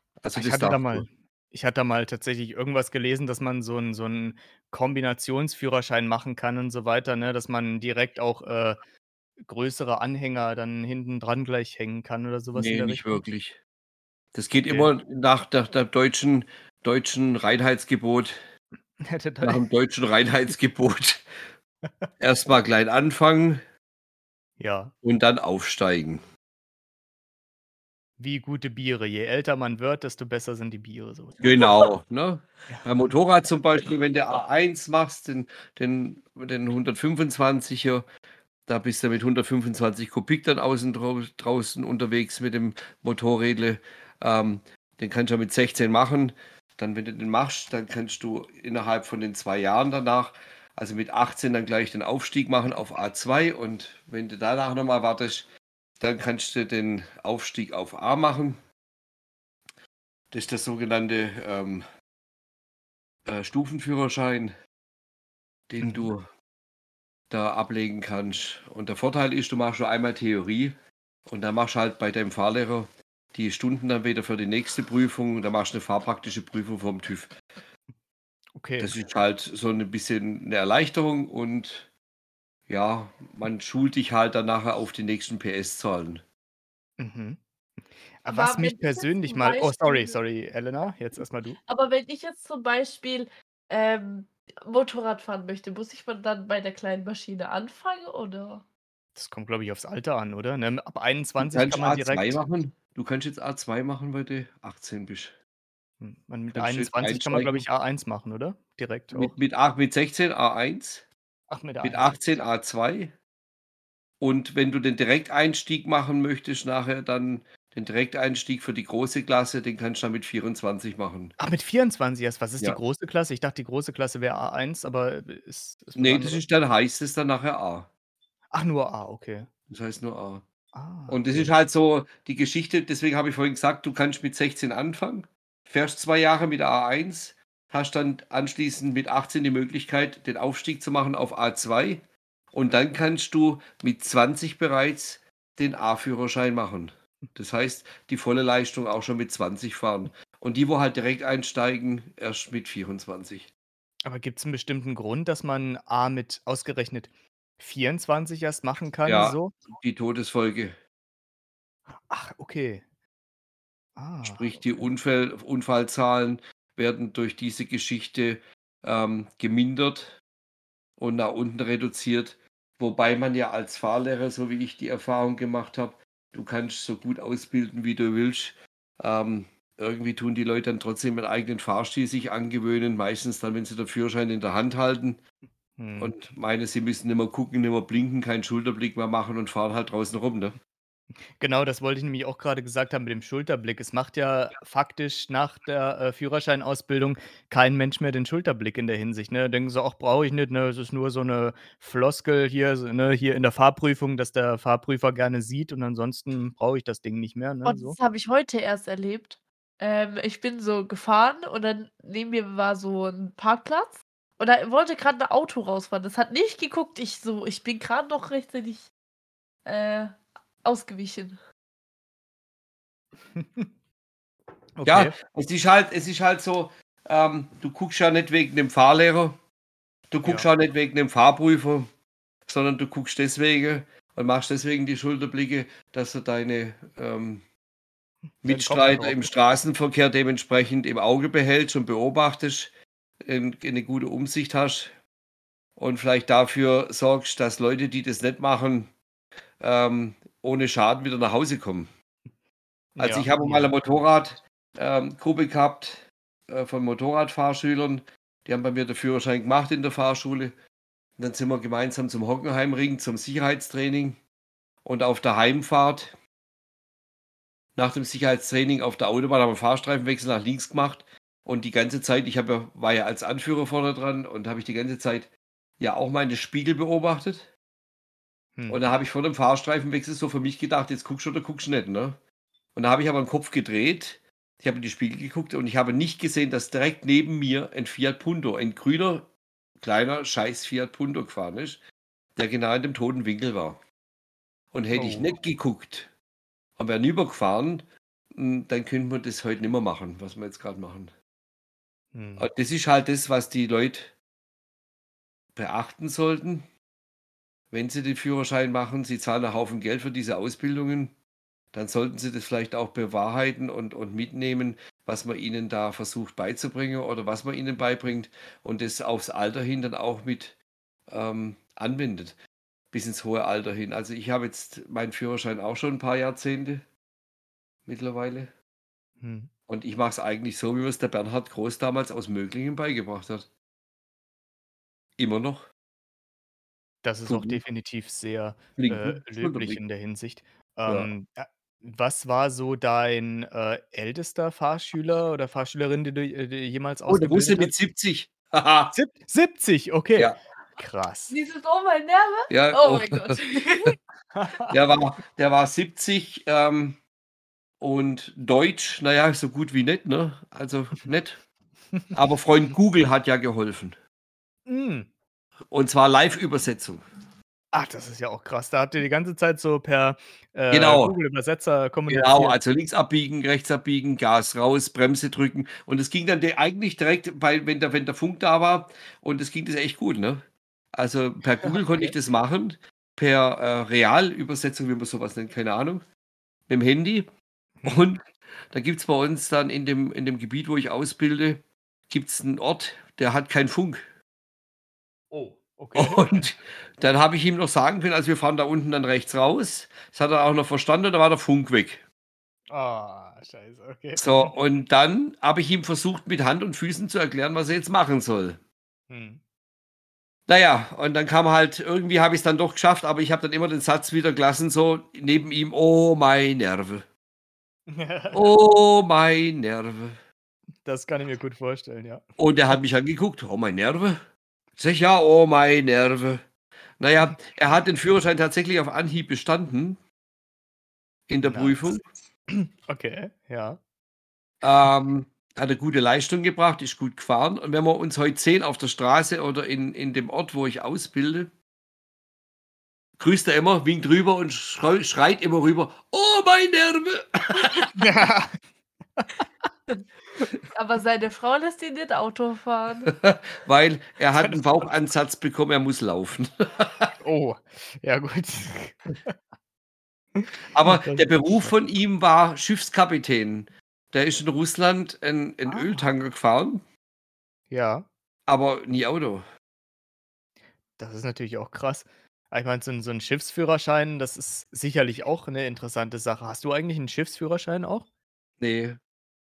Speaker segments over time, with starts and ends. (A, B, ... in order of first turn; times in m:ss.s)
0:00.2-0:01.1 A
0:00.3-0:08.8 B
0:09.4-0:13.2 B
0:12.5-0:13.6 A
0:14.3-0:18.4 A
0:19.0-0:19.6 B
0:19.4-0:21.4 A
0:22.2-0:23.6 A
0:24.6-0:24.9 B
0:25.0-0:26.2 A
0:28.2-0:31.6 B
0:31.4-0:38.0 A
0:38.7-0:55.5 A
0:56.0-0:58.6 A
1:00.3-1:01.8 A
1:03.2-1:04.5 A
1:05.7-1:06.3 A
1:05.8-1:06.1 B
1:07.3-1:10.8 A
1:11.3-1:17.3 A
1:18.6-1:18.9 B
1:18.8-1:21.9 A
1:22.7-1:26.2 A
1:27.0-1:27.4 B
1:28.2-1:31.6 B
1:28.3-1:30.2 C
1:31.7-1:38.6 C
1:39.2-1:42.4 B
1:41.4-1:45.4 A
1:46.0-1:49.3 B
1:46.5-1:47.7 A
1:49.1-1:51.1 A
1:51.5-1:52.1 B
1:51.8-1:53.1 A
1:54.2-2:01.3 A
2:01.4-2:06.4 B
2:06.0-2:07.9 A
2:08.5-2:09.5 B
2:09.7-2:10.4 A
2:10.7-2:11.5 B
2:11.1-2:33.5 A
2:34.0-2:39.5 B
2:39.0-2:40.8 A
2:42.1-2:42.8 B
2:44.0-2:44.8 B
2:44.2-2:50.2 A
2:51.0-3:05.2 A
3:05.8-3:06.1 B
3:06.0-3:10.6 A
3:11.4-3:28.0 B
3:27.6-3:38.9 C
3:39.6-3:41.4 C
3:43.4-3:43.7 B
3:44.8-3:45.1 B
3:44.8-3:49.4 A
3:50.1-3:51.9 A
3:52.5-3:57.4 A
3:58.4-3:59.3 B
3:58.4-4:05.0 A
4:05.8-4:08.9 A
4:09.6-4:11.9 A
4:13.0-4:13.7 B
4:13.0-4:20.6 A
4:21.2-4:24.2 A
4:24.8-4:26.2 A
4:27.8-4:37.5 A
4:38.6-4:38.8 B
4:38.7-4:42.2 A
4:42.7-4:49.3 A
4:49.8-4:51.8 A
4:52.4-4:53.8 A
4:54.7-4:56.1 A
4:54.9-4:55.3 B
4:56.8-5:01.1 A
5:02.1-5:02.5 B
5:02.4-5:04.1 A
5:05.6-5:06.7 A
5:07.7-5:11.1 A
5:11.7-5:20.6 A
5:21.1-5:22.4 A
5:22.9-5:26.8 A
5:27.8-5:28.5 A
5:29.2-5:29.5 B
5:29.7-5:33.5 A
5:35.2-5:35.7 A
5:37.0-5:47.7 B
5:37.3-5:37.6 A
5:38.8-5:39.8 A
5:47.1-5:48.9 A
5:48.9-5:51.3 B
5:51.3-5:53.9 C
5:52.5-5:53.4 A
5:54.3-5:54.7 B
5:54.7-5:57.0 A
5:57.8-6:01.4 A
6:02.1-6:04.0 A
6:04.7-6:05.1 B
6:05.7-6:07.0 A
6:07.7-6:12.6 B
6:10.7-6:11.2 A
6:12.1-6:26.0 A
6:26.7-6:27.3 A
6:27.8-6:34.0 A
6:35.3-6:36.5 B
6:35.9-6:42.0 A
6:42.7-6:44.5 B
6:44.2-6:48.6 A
6:49.1-6:49.4 B
6:50.5-6:57.0 A
6:57.9-6:58.5 B
6:58.3-7:00.2 A
7:00.8-7:02.2 B
7:02.4-7:04.2 A
7:04.8-7:06.4 A
7:07.0-7:10.0 A
7:11.3-7:12.0 A
7:11.4-7:12.0 B
7:12.5-7:13.8 B
7:14.6-7:21.5 A
7:23.2-7:27.8 A
7:28.0-7:28.6 B
7:30.7-7:33.1 C
7:33.2-7:37.1 A
7:34.4-7:34.6 B
7:37.2-7:39.3 B
7:40.4-7:41.7 B
7:40.7-7:46.8 A
7:45.7-7:46.0 B
7:47.7-7:48.0 B
7:48.5-7:49.4 A
7:51.0-7:58.0 B
7:58.6-7:59.0 A